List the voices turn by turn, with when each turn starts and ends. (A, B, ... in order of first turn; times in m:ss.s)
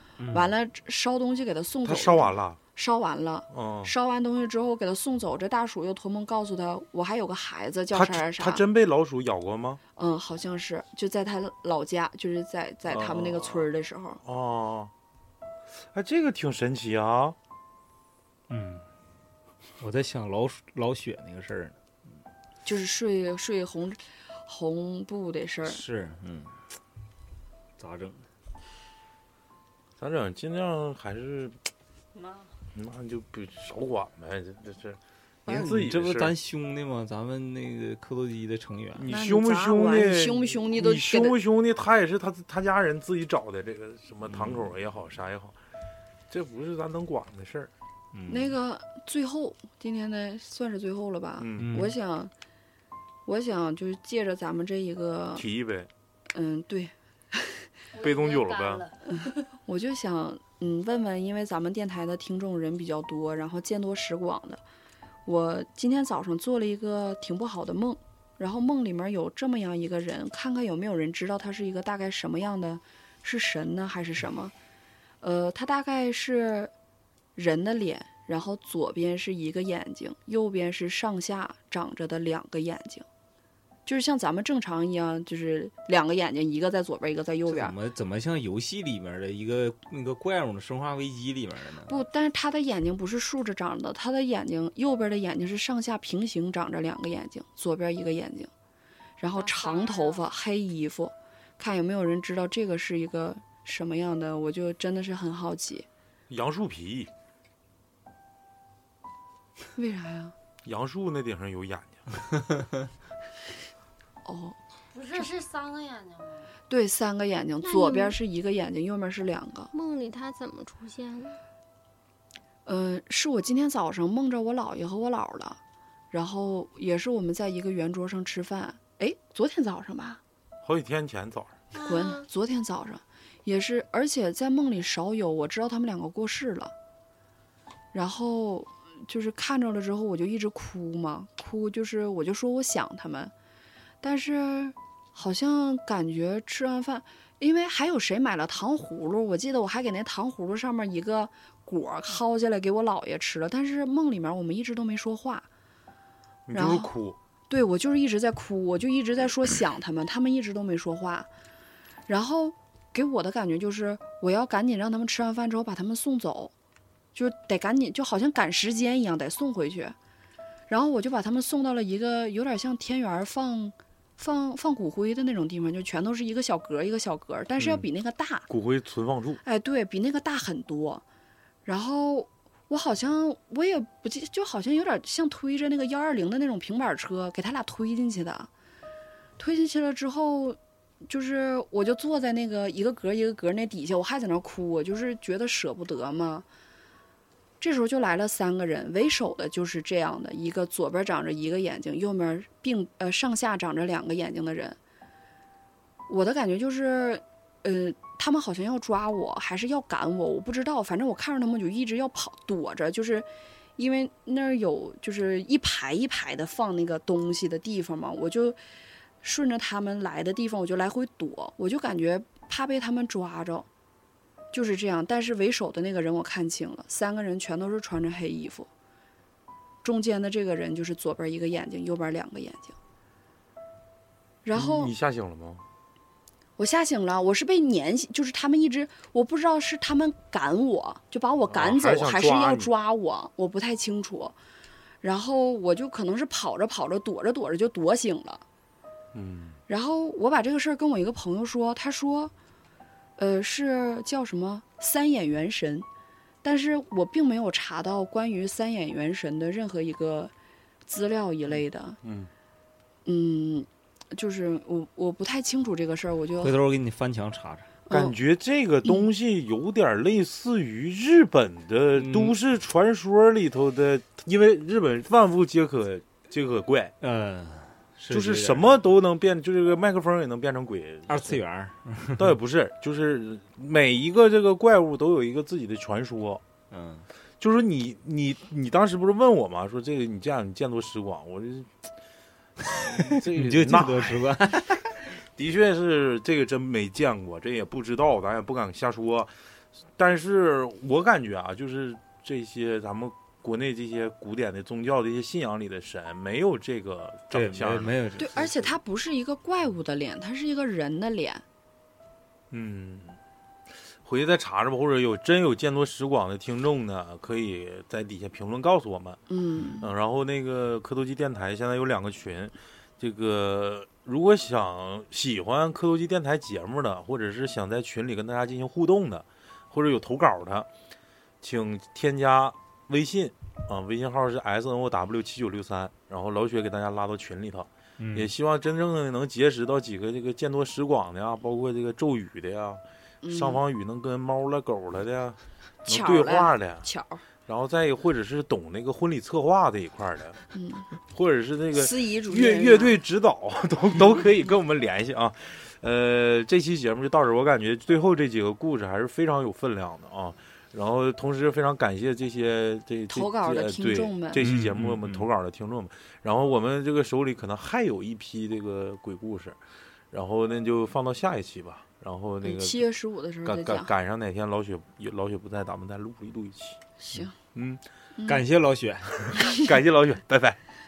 0:00.2-0:00.5 A
0:00.3-0:08.6 B
0:01.8-0:02.6 C
0:03.5-0:03.9 C
0:07.9-0:09.8 C
0:10.0-0:14.2 B
0:12.9-0:13.7 C
0:14.2-0:14.9 C
0:15.9-0:17.4 C
0:18.5-0:18.8 A
0:19.8-0:21.8 A
0:22.6-0:25.8 B
0:25.6-0:26.5 A
0:27.8-0:28.2 A
0:30.0-0:31.6 C
0:32.2-0:32.5 D
0:32.7-0:36.4 C
0:35.5-0:39.1 A
0:39.0-0:45.6 C
0:39.1-0:41.4 B
0:44.4-0:44.6 A
0:46.3-0:47.7 C
0:48.1-0:48.6 A
0:48.3-0:52.3 B
0:51.4-0:51.7 C
0:51.6-0:52.0 A
0:53.3-0:55.4 B
0:55.4-0:55.9 C
0:56.3-0:57.6 B
0:57.9-0:59.1 D
0:58.0-0:58.9 C
0:59.7-1:04.6 B
1:05.3-1:14.5 B
1:15.2-1:16.7 B
1:17.4-1:23.0 B
1:23.9-1:27.8 B
1:27.5-1:32.0 A
1:31.9-1:38.5 B
1:39.2-1:45.9 B
1:39.3-1:40.2 D
1:46.3-1:47.1 C
1:49.8-1:50.4 B
1:50.6-1:52.0 C
1:54.2-1:54.6 B
1:54.9-1:56.5 D
1:56.7-1:59.7 B
1:57.6-1:58.2 E
1:59.7-2:01.4 E
2:02.7-2:05.6 B
2:06.1-2:10.2 B
2:10.6-2:11.6 C
2:11.7-2:12.3 E
2:11.8-2:16.7 B
2:17.9-2:23.3 B
2:24.0-2:35.5 B
2:36.5-2:37.2 C
2:36.5-2:36.9 B
2:37.5-2:41.3 B
2:42.1-2:46.5 B
2:47.2-2:50.0 B
2:50.7-2:58.5 B
2:57.6-2:57.9 C
2:58.5-2:59.4 C
2:59.4-3:01.0 B
3:01.7-3:08.5 B
3:09.4-3:16.5 B
3:17.6-3:24.8 B
3:26.1-3:38.6 B
3:39.2-3:43.7 B
3:44.5-3:48.7 B
3:49.8-3:52.8 B
3:54.4-3:54.9 B
3:54.6-3:55.6 C
3:56.6-4:04.4 B
4:01.5-4:02.7 C
4:05.0-4:08.4 B
4:09.1-4:09.6 C
4:09.7-4:12.3 B
4:13.2-4:15.9 B
4:16.4-4:20.3 B
4:20.9-4:22.0 B
4:22.0-4:22.3 C
4:23.1-4:26.6 B
4:26.4-4:27.7 A
4:27.9-4:28.2 B
4:27.9-4:36.9 C
4:32.0-4:32.3 A
4:37.0-4:38.8 A
4:38.1-4:41.4 C
4:41.1-4:42.3 A
4:42.2-4:46.4 C
4:46.7-4:47.1 A
4:47.4-4:51.7 C
4:52.7-4:55.0 A
4:52.7-4:54.2 C
4:55.3-4:59.3 C
5:00.0-5:08.0 C
5:07.3-5:08.8 A
5:08.2-5:11.4 B
5:12.5-5:13.2 C
5:14.0-5:19.2 C
5:19.3-5:19.9 B
5:19.8-5:30.7 C
5:31.4-5:46.9 C
5:38.0-5:38.3 A
5:43.2-5:43.6 B
5:45.9-5:47.2 B
5:47.5-5:50.4 C
5:50.5-5:50.9 B
5:51.1-6:09.6 C
5:51.7-5:53.0 B
6:03.1-6:04.5 B
6:04.4-6:05.3 A
6:10.1-6:12.9 C
6:12.4-6:13.9 B
6:13.4-6:16.8 C
6:17.0-6:17.3 B
6:17.4-6:17.8 C
6:18.2-6:18.4 B
6:18.3-6:19.4 A
6:19.5-6:20.6 C